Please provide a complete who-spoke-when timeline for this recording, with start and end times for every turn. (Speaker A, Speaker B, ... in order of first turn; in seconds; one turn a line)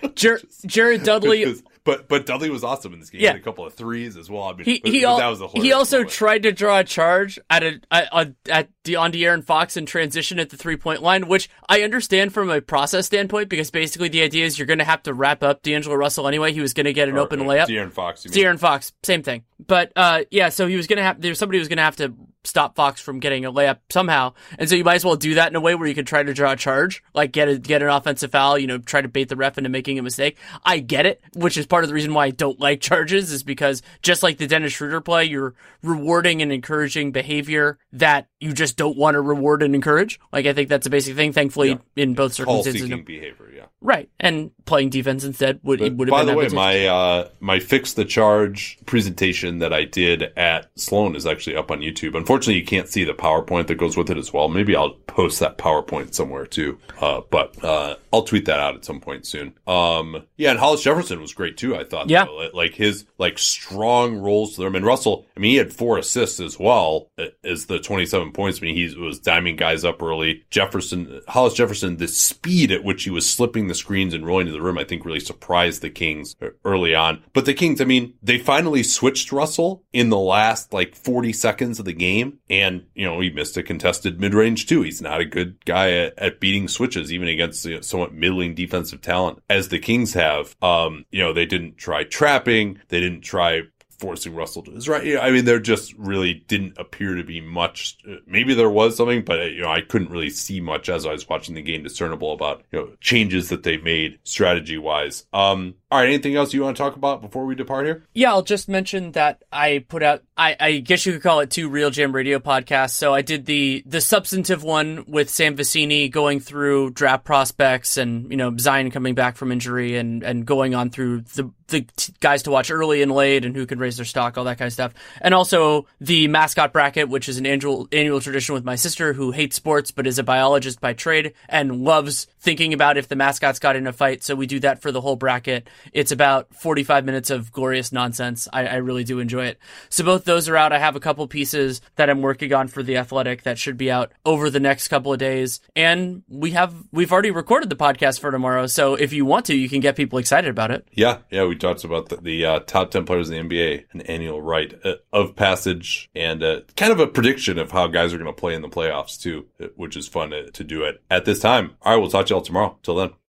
Speaker A: 0.1-1.5
Speaker B: 1.0-6.2
Speaker A: 4.6-17.7
Speaker B: 17.1-18.5
Speaker A: 18.3-43.0
Speaker B: 41.6-43.7
Speaker A: 43.8-46.8
Speaker B: 45.8-108.0
Speaker A: 108.1-150.8
Speaker B: 150.9-163.1